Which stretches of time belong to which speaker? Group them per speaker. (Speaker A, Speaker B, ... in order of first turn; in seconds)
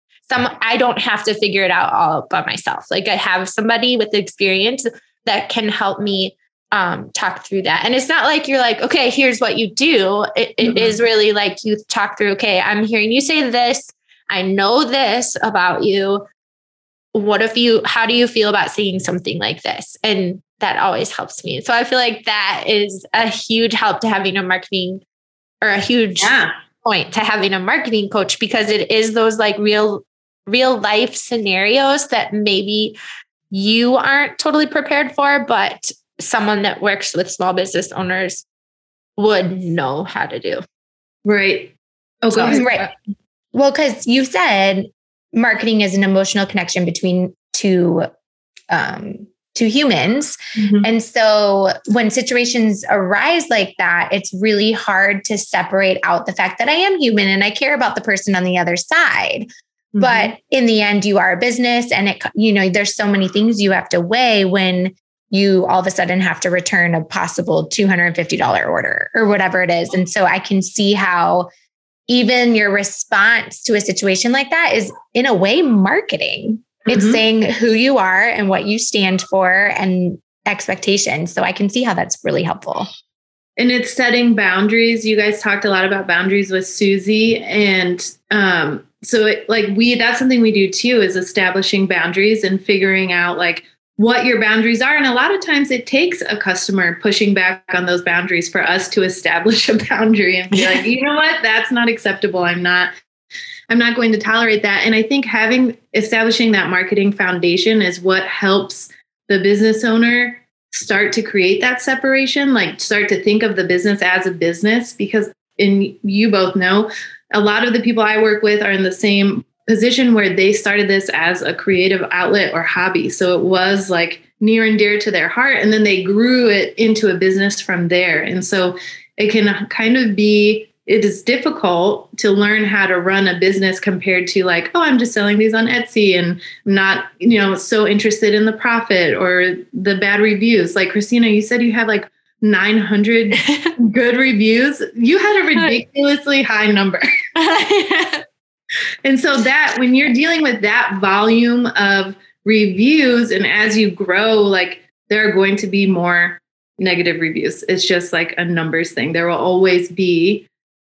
Speaker A: 0.3-16.3, 17.1-25.0, 25.6-33.0, 33.5-38.5, 39.2-40.6, 42.3-42.6, 143.4-143.7, 147.4-148.2
Speaker B: 10.6-11.0, 26.2-26.5, 41.2-42.9, 50.6-50.9, 60.0-60.3, 76.9-77.2, 83.6-102.9, 103.7-147.0, 149.1-160.5
Speaker C: 42.5-42.9, 43.5-48.1, 48.7-59.5, 60.0-71.5, 72.1-82.9